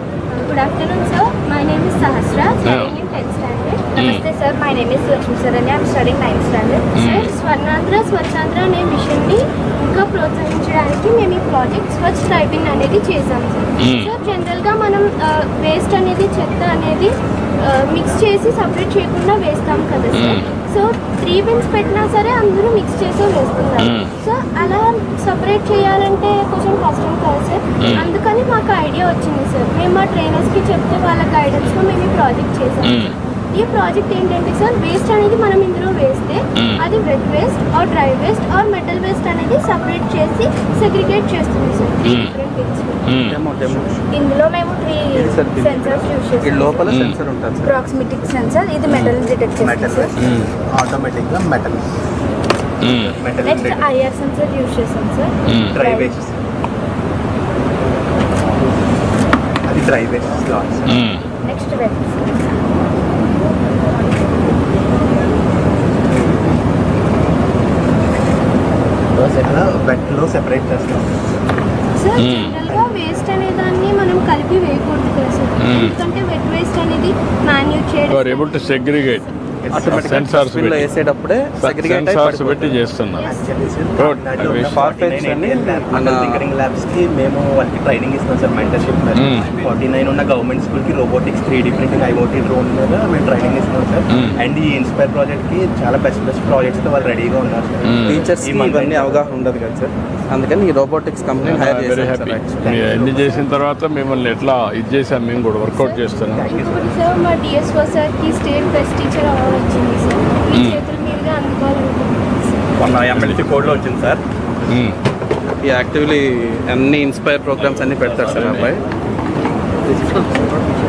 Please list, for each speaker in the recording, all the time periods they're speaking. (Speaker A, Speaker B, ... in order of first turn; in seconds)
Speaker A: 0.3-3.9, 7.0-43.1, 71.9-78.6, 83.2-83.5, 105.7-112.4
Speaker B: 2.6-2.9, 4.0-4.3, 7.0-7.3, 13.8-14.1, 20.1-20.4, 23.8-24.1, 27.8-28.1, 32.9-33.1, 42.0-42.3, 43.1-43.4, 46.9-47.2, 52.8-53.2, 55.5-55.8, 60.9-61.2, 72.2-72.6, 75.6-76.0, 78.1-80.9, 81.6-83.3, 84.0-84.9, 89.2-89.5, 94.1-94.4, 97.8-98.2, 101.4-106.5, 110.5-110.8, 113.1-113.4, 114.7-115.0, 118.3-118.7
Speaker C: 4.0-6.9, 44.1-46.9, 47.6-50.1, 53.4-56.2, 61.4-62.3
Speaker D: 43.2-44.1, 45.1-47.8, 79.7-82.8, 84.4-86.5, 98.0-102.8, 113.4-114.1, 115.6-118.8, 119.9-120.4
Speaker E: 49.6-51.9, 52.9-53.9, 55.6-56.3, 59.7-61.1, 69.2-71.1, 72.7-72.9, 83.2-99.3, 102.8-103.4, 106.3-107.0, 112.8-114.2